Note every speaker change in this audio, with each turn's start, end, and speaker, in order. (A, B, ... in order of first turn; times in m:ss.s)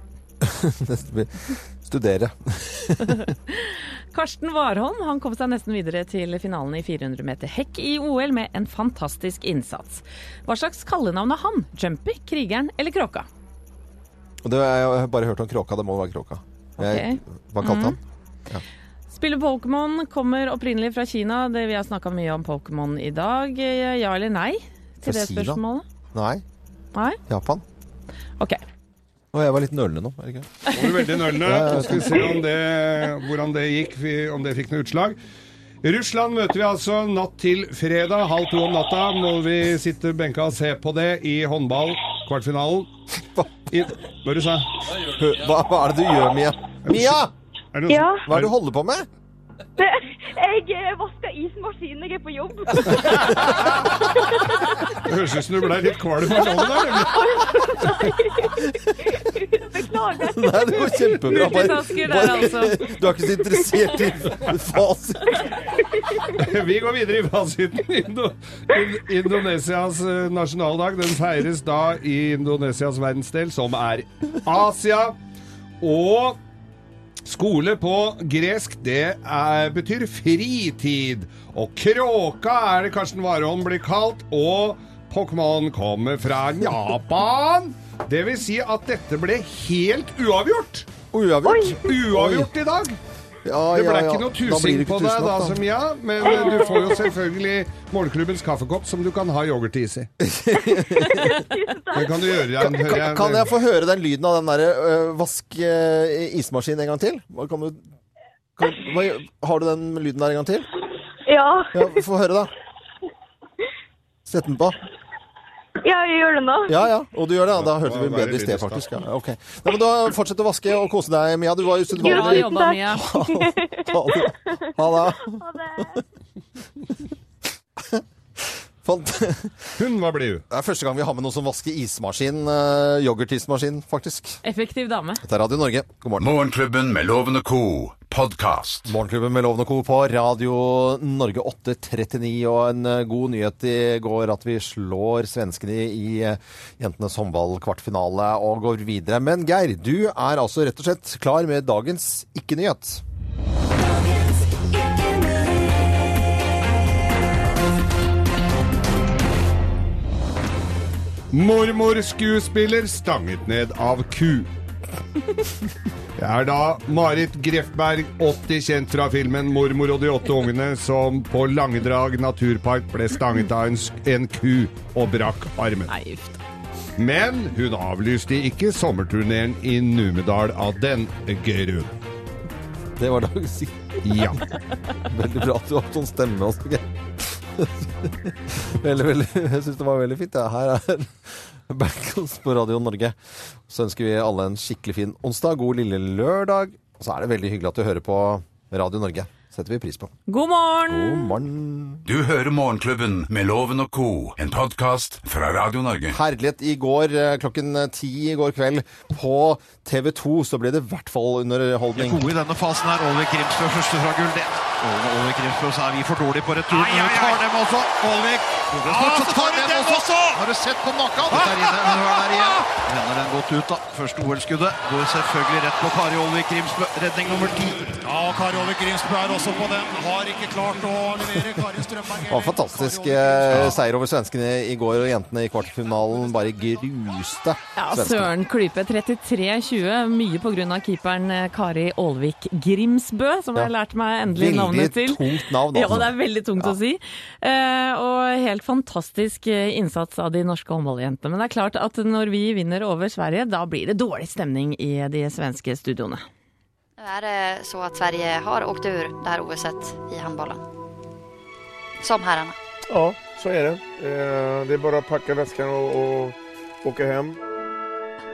0:00.4-0:03.3 A
0:03.0-0:13.3 B
0:14.4-0:18.0 A
0:16.8-0:18.0 B
0:19.1-0:25.8 B
0:25.0-0:25.6 A
0:26.1-0:26.4 A
0:27.3-0:27.6 A
0:29.3-0:30.6 A
0:30.7-0:35.2 C
0:31.4-0:32.3 A
0:35.8-0:42.9 C
0:43.7-0:44.7 C
0:44.9-0:47.3 A
0:46.9-0:47.2 C
0:47.7-0:48.5 C
0:47.9-0:48.3 D
0:48.3-0:49.1 A
0:49.8-0:54.6 D
0:55.0-0:57.9 C
0:56.4-0:58.6 D
0:59.2-1:00.8 D
1:00.3-1:05.4 A
1:01.3-1:02.9 B
1:06.4-1:15.2 C
1:15.8-1:16.4 C
1:17.2-1:30.9 C
1:31.1-1:32.5 A
1:31.4-1:31.9 D
1:31.8-1:33.0 C
1:33.4-1:35.6 A
1:33.7-1:40.1 C
1:36.2-1:36.6 A
1:40.2-1:41.3 A
1:40.7-1:42.7 D
1:41.9-1:43.5 C
1:42.6-1:47.8 A
1:48.6-1:50.6 A
1:51.3-1:52.0 D
1:51.7-1:52.5 A
1:54.2-1:54.8 A
1:55.8-1:56.9 D
1:56.7-2:05.4 A
1:57.6-1:59.0 C
2:02.0-2:03.1 B
2:02.0-2:06.0 D
2:07.8-2:09.7 A
2:09.8-2:10.4 C
2:10.5-2:14.4 A
2:14.4-2:15.2 B
2:15.2-2:16.3 A
2:16.2-2:18.9 E
2:18.9-2:33.0 A
2:41.3-2:44.5 C
2:46.2-2:55.9 C
2:55.9-2:56.4 B
2:57.0-3:01.9 C
3:03.0-3:04.4 A
3:04.0-3:04.5 C
3:05.0-3:13.2 A
3:13.7-3:20.1 A
3:20.3-3:21.3 B
3:20.9-3:22.0 A
3:22.1-3:26.2 E
3:26.1-3:32.3 A
3:32.0-3:53.6 F
3:52.3-3:58.3 A
3:57.8-4:16.2 B
4:04.3-4:06.8 A
4:17.0-4:20.6 G
4:22.0-4:22.6 G
4:22.9-4:27.4 H